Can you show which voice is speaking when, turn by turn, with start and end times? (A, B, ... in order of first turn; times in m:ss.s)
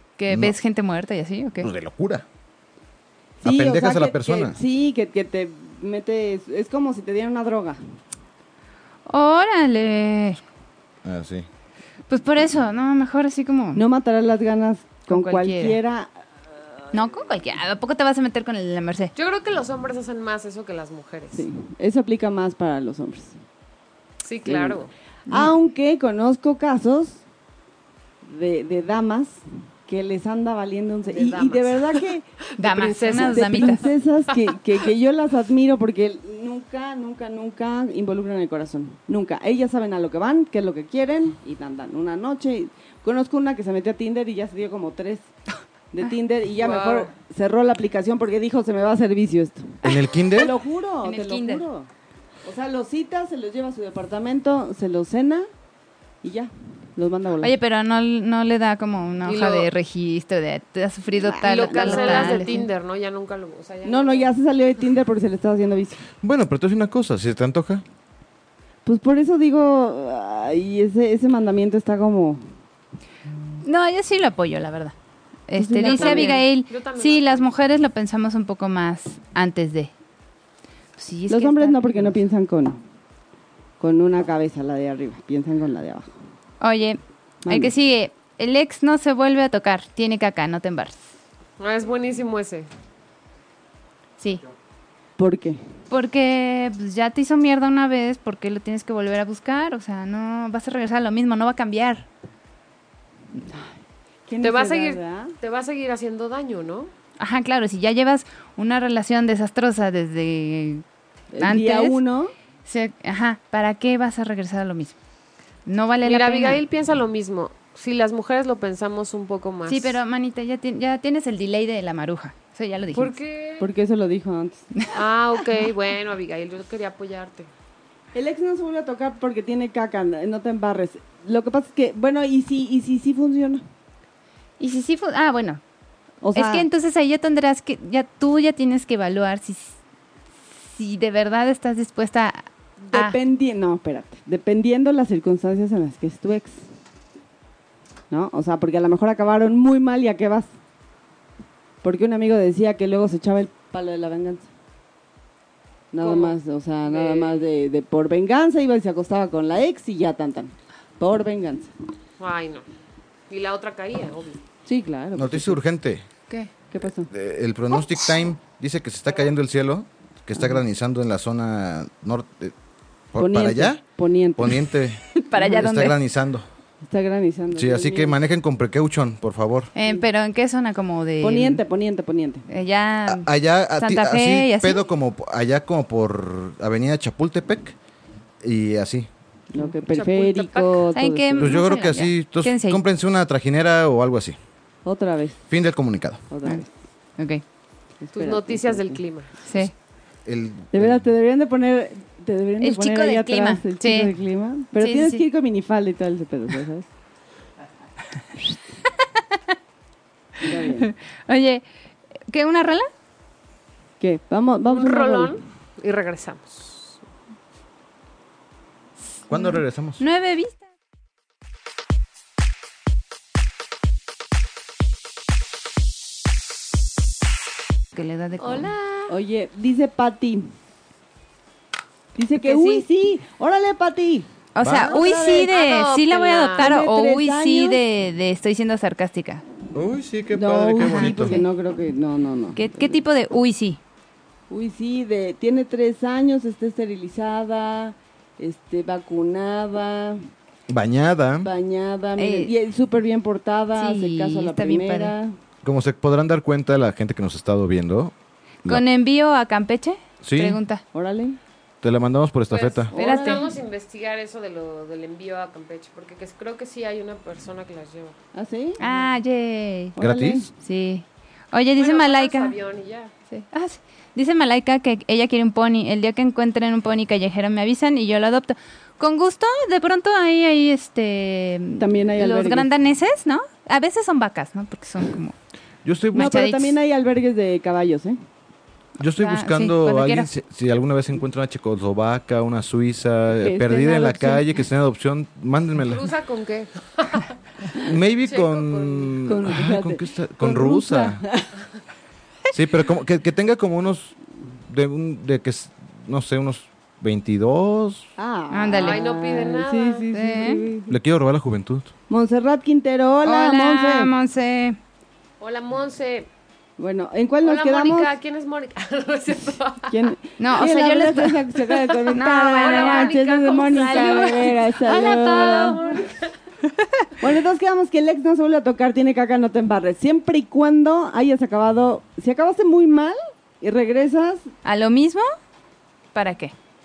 0:00.2-0:01.7 A
0:00.3-0:00.6 B
0:01.6-0:02.2 B
0:03.4-0:07.8 C
0:03.4-0:04.6 B
0:09.1-0:10.4 A
0:11.0-0:11.5 B
0:12.1-0:13.8 A
0:13.8-0:16.1 C
0:15.1-0:15.8 A
0:16.9-0:19.1 A
0:19.2-0:21.4 D
0:21.3-0:23.4 C
0:24.2-0:24.9 D
0:24.5-0:27.2 C
0:25.3-0:25.5 A
0:28.2-0:45.3 C
0:31.1-0:32.1 D
0:32.6-0:33.9 A
0:32.7-0:34.5 D
0:45.9-0:51.9 C
0:46.6-0:47.1 D
0:49.8-0:50.6 B
0:51.0-0:51.6 A
0:52.4-0:55.5 C
0:56.2-0:57.5 C
0:57.4-1:02.6 A
0:59.2-0:59.7 D
1:01.2-1:02.7 C
1:01.4-1:04.3 D
1:03.8-1:06.0 C
1:06.2-1:07.8 B
1:08.8-1:12.4 C
1:13.6-1:15.0 A
1:15.5-1:19.9 A
1:15.6-1:16.4 C
1:15.8-1:17.5 D
1:21.0-1:22.2 A
1:21.3-1:22.8 C
1:23.8-1:26.1 C
1:26.6-1:31.0 A
1:27.4-1:27.7 C
1:31.6-1:32.7 D
1:35.2-1:35.6 C
1:35.9-1:42.1 A
1:43.4-1:43.7 C
1:44.3-1:45.3 C
1:44.4-1:46.9 D
1:47.2-1:50.8 A
1:51.3-1:52.3 C
1:51.4-1:52.0 A
1:52.7-1:55.0 A
1:55.7-1:56.6 A
1:56.0-2:00.0 D
1:59.7-2:03.1 A
2:02.9-2:03.7 D
2:03.6-2:04.6 C
2:04.9-2:07.5 D
2:08.1-2:13.6 C
2:14.6-2:15.6 A
2:16.2-2:16.7 C
2:16.4-2:19.8 A
2:20.7-2:23.2 A
2:22.9-2:26.6 C
2:28.1-2:30.5 C
2:31.8-2:34.5 C
2:35.9-2:41.7 C
2:36.0-2:37.5 D
2:42.2-2:42.6 D
2:43.3-2:44.4 D
2:44.7-2:45.6 C
2:45.2-2:46.0 B
2:46.7-2:47.1 C
2:47.1-2:52.5 B
2:53.1-2:53.8 B
2:53.2-2:54.6 C
2:54.4-2:56.5 B
2:55.1-2:56.0 A
2:56.8-2:58.2 C
2:57.5-2:59.7 B
2:59.8-3:01.6 A
3:01.2-3:02.4 C
3:02.5-3:04.8 A
3:03.1-3:07.8 B
3:08.4-3:09.1 B
3:09.5-3:11.6 C
3:09.9-3:10.9 D
3:10.9-3:12.8 A
3:11.4-3:14.4 B
3:14.8-3:15.4 C
3:15.5-3:16.2 B
3:16.3-3:16.7 C
3:17.2-3:17.4 A
3:18.0-3:19.0 C
3:18.2-3:19.4 D
3:19.5-3:19.7 A
3:20.3-3:21.0 B
3:20.7-3:26.9 C
3:22.6-3:24.1 A
3:24.8-3:25.2 A
3:29.1-3:29.4 A
3:30.4-3:30.9 C
3:30.8-3:31.6 A
3:32.3-3:32.9 A
3:34.0-3:35.3 C
3:34.7-3:37.0 D
3:39.3-3:40.7 A
3:39.3-3:40.0 B
3:47.9-3:48.7 A
3:48.4-3:49.2 D
3:49.1-3:50.5 C
3:52.2-3:54.3 C
3:52.4-3:52.8 A
3:54.6-3:59.4 A
3:54.6-3:55.0 B
3:54.9-3:55.5 C
3:55.1-3:56.7 D
3:56.6-3:57.8 C
3:59.8-4:01.4 B
4:00.3-4:03.0 C
4:00.8-4:01.5 A
4:02.6-4:03.8 A
4:04.5-4:10.2 C
4:10.7-4:11.5 B
4:11.4-4:15.4 C
4:12.2-4:12.5 A
4:13.8-4:15.1 A
4:15.6-4:18.1 B
4:18.6-4:20.8 A
4:20.2-4:20.6 B
4:20.9-4:21.4 C
4:21.8-4:22.9 B
4:22.5-4:28.2 D
4:22.9-4:23.5 C
4:23.0-4:23.5 A
4:28.3-4:28.8 C
4:28.8-4:30.0 A
4:30.0-4:30.5 C
4:30.0-4:30.5 B
4:30.5-4:32.6 A
4:31.8-4:33.1 D
4:33.3-4:45.4 A
4:41.8-4:42.7 C
4:45.8-4:46.5 B
4:46.1-4:46.8 A
4:46.1-4:48.2 C
4:49.0-4:56.1 B
4:49.2-4:50.3 A
4:53.4-4:54.5 C
4:55.8-4:57.3 D
4:57.8-5:01.2 B
4:58.2-4:59.3 D
4:59.3-5:01.5 C
5:02.5-5:04.2 B
5:04.7-5:08.1 B
5:08.2-5:10.9 C
5:08.5-5:09.0 A
5:08.8-5:10.1 D
5:10.1-5:10.6 A
5:10.9-5:11.9 B
5:12.1-5:14.1 C
5:13.2-5:14.8 A
5:15.4-5:16.3 D
5:16.8-5:18.1 C
5:17.4-5:20.1 D
5:19.9-5:26.0 C
5:20.4-5:21.4 A
5:21.7-5:26.3 D
5:22.1-5:25.9 A
5:27.2-5:34.5 C
5:34.6-5:35.3 A
5:36.1-5:36.5 A